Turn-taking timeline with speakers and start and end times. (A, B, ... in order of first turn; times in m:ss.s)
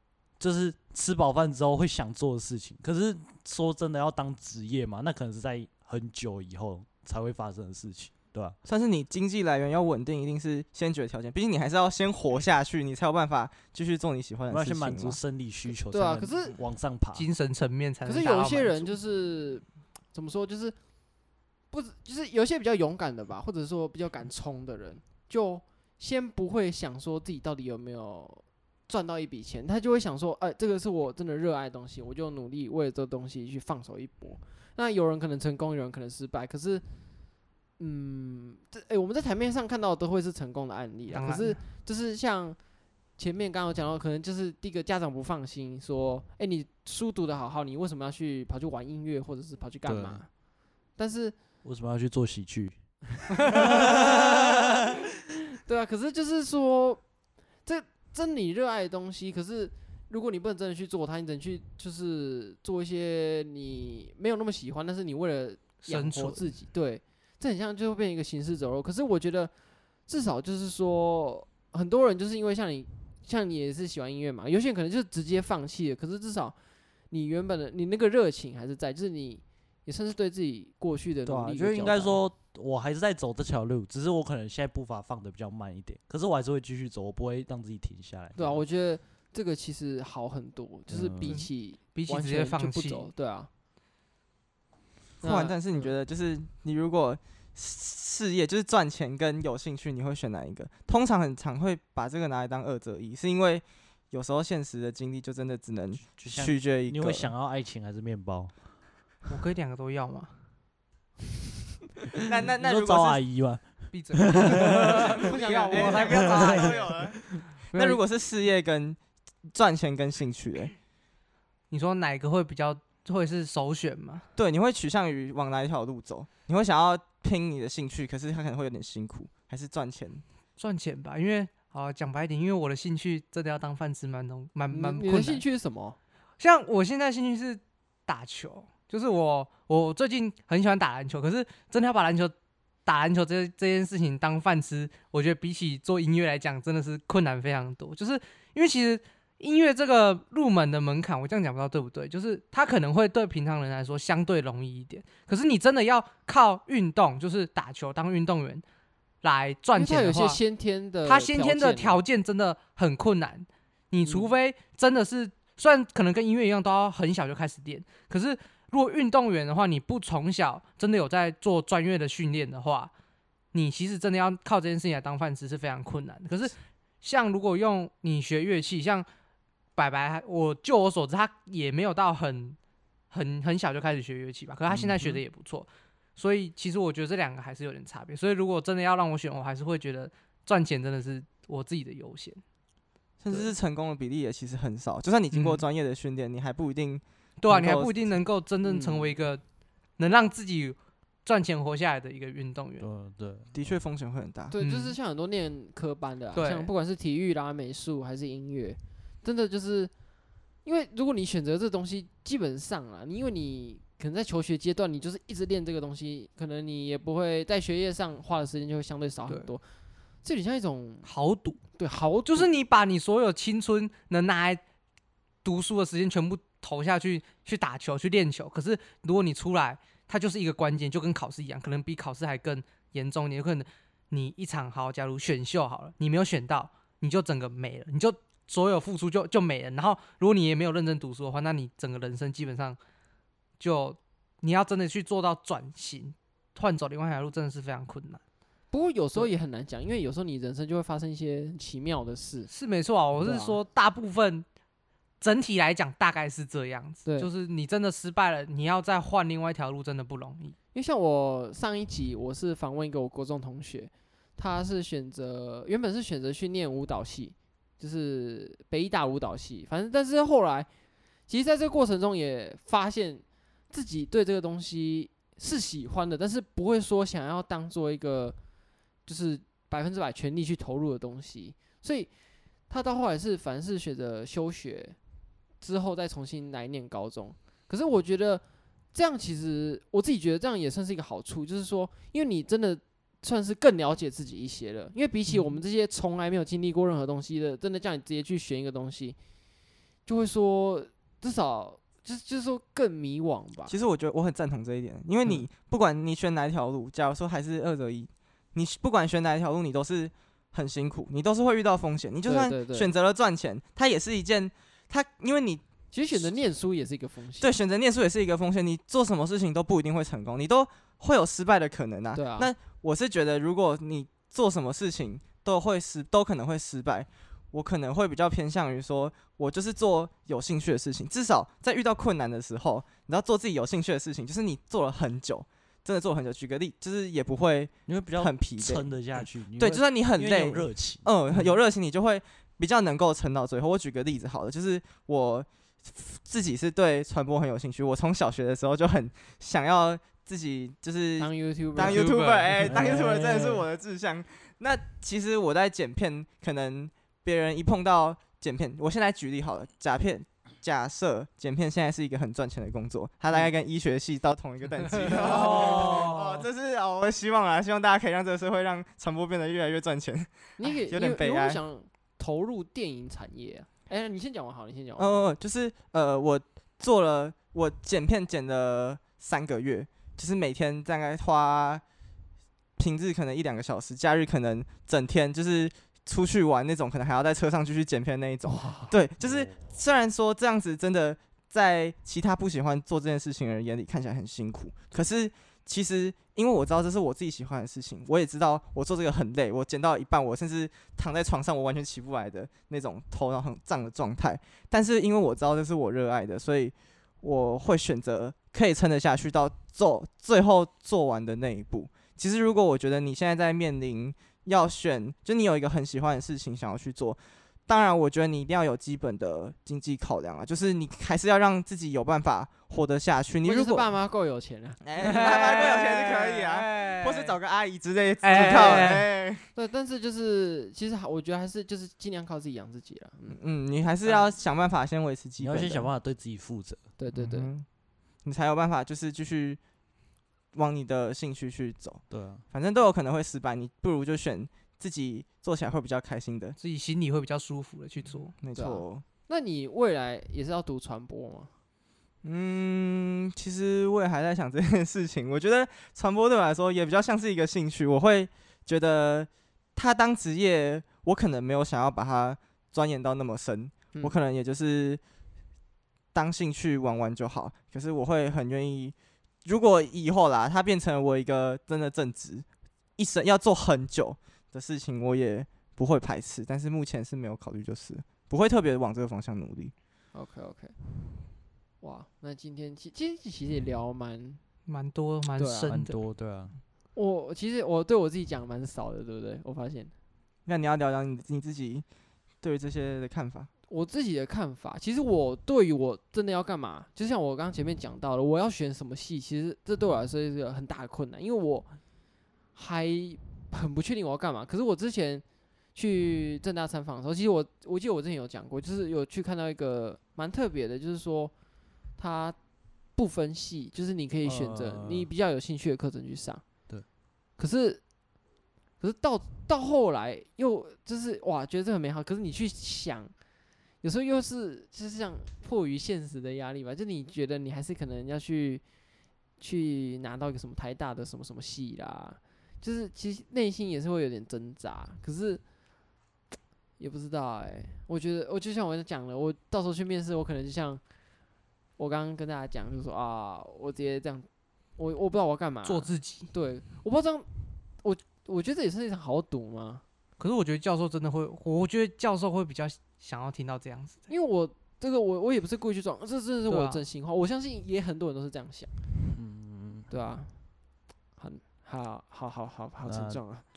0:00.4-0:08.6 A
0:08.6-0:15.2 B
0:14.5-0:17.2 A
0:15.9-0:16.6 C
0:17.1-0:18.9 D
0:18.0-0:20.8 C
0:21.7-0:36.8 C
0:37.8-0:42.6 C
0:41.1-0:41.6 D
0:43.2-0:50.3 C
0:49.8-0:50.2 A
0:50.9-0:51.3 C
0:51.6-0:54.2 A
0:53.5-0:54.5 C
0:55.6-0:57.0 C
0:57.6-1:09.5 C
1:05.8-1:06.4 D
1:10.1-1:16.5 C
1:17.1-1:22.2 C
1:21.2-1:28.6 A
1:28.3-1:33.5 C
1:30.9-1:31.4 A
1:31.2-1:33.1 D
1:35.2-1:47.3 B
1:35.2-1:35.9 C
1:46.0-1:48.5 A
1:49.3-1:50.3 D
1:52.2-1:53.2 B
1:52.6-1:55.1 A
1:53.9-1:56.9 D
1:54.8-1:57.2 B
1:55.3-1:56.6 C
1:56.0-1:57.4 A
1:57.7-1:59.0 B
1:57.7-1:58.0 D
1:59.5-2:00.7 B
2:01.7-2:04.2 D
2:04.4-2:10.2 B
2:10.6-2:15.4 D
2:14.7-2:16.0 C
2:16.4-2:22.3 D
2:22.8-2:38.6 D
2:39.2-2:40.4 D
2:39.7-2:42.0 C
2:41.0-2:52.9 D
2:44.0-2:44.3 C
2:53.5-2:59.0 D
2:59.8-3:02.6 D
3:03.1-3:12.4 D
3:04.7-3:05.1 A
3:13.2-3:18.0 B
3:15.3-3:15.6 D
3:17.4-3:19.4 D
3:18.6-3:19.2 C
3:20.0-3:22.9 D
3:22.8-3:23.6 A
3:23.5-3:24.5 B
3:24.5-3:29.9 C
3:24.6-3:25.0 D
3:26.3-3:26.7 D
3:30.6-3:39.6 C
3:40.2-3:41.1 C
3:41.0-3:41.6 D
3:41.8-3:42.5 C
3:42.2-3:44.6 D
3:45.4-4:02.8 D
4:03.6-4:08.2 D
4:08.7-4:12.5 C
4:12.5-4:14.4 D
4:13.2-4:13.6 C
4:15.2-4:20.5 D
4:20.7-4:30.7 C
4:31.3-4:38.4 C
4:39.0-4:42.1 C
4:42.6-4:45.0 C
4:45.6-4:59.2 C
4:55.3-4:55.6 D
5:00.0-5:03.7 C
5:03.7-5:16.2 B
5:12.2-5:12.9 C
5:15.9-5:17.5 C
5:17.4-5:38.9 B
5:22.1-5:22.5 C
5:37.8-5:41.1 A
5:39.6-6:11.6 B
5:51.2-5:52.9 C
5:51.8-5:52.1 D
5:52.6-5:53.7 A
6:05.0-6:06.4 D
6:05.2-6:05.9 C
6:10.6-6:15.2 C
6:15.0-6:21.8 B
6:22.8-7:03.9 B
6:28.4-6:28.9 C
6:29.2-6:29.5 A
7:03.4-7:04.8 C
7:04.8-7:09.4 B
7:05.0-7:07.4 D
7:08.2-7:09.1 D
7:08.3-7:13.4 C
7:13.3-7:15.9 B
7:14.0-7:14.3 C
7:15.4-7:16.8 A
7:17.0-7:17.5 C
7:17.1-7:17.6 B
7:18.2-7:19.6 B
7:20.5-7:26.6 B
7:22.1-7:22.4 A
7:26.6-7:28.3 D
7:28.4-7:29.0 B
7:28.5-7:31.5 C
7:32.2-7:45.0 B
7:46.1-7:52.4 B
7:53.0-7:59.7 B
8:00.1-8:00.8 C
8:01.8-8:04.4 C
8:04.7-8:06.0 D
8:05.4-8:05.7 C
8:05.6-8:06.6 A
8:06.9-8:09.9 C
8:10.4-8:11.8 B
8:12.4-8:13.5 B
8:13.7-8:21.8 C
8:22.5-8:31.3 C
8:31.9-8:36.4 C
8:34.2-8:35.1 A
8:37.4-8:37.8 C
8:38.8-8:43.1 C
8:43.8-8:48.6 C
8:49.4-8:55.4 C
8:56.8-9:00.8 C
9:01.8-9:07.3 C
9:05.6-9:06.3 D
9:07.8-9:09.8 C
9:10.2-9:14.0 D
9:14.1-9:18.7 C
9:16.5-9:16.8 D
9:19.1-9:19.9 A
9:19.9-9:20.6 C
9:21.2-9:23.4 C
9:22.8-9:23.2 A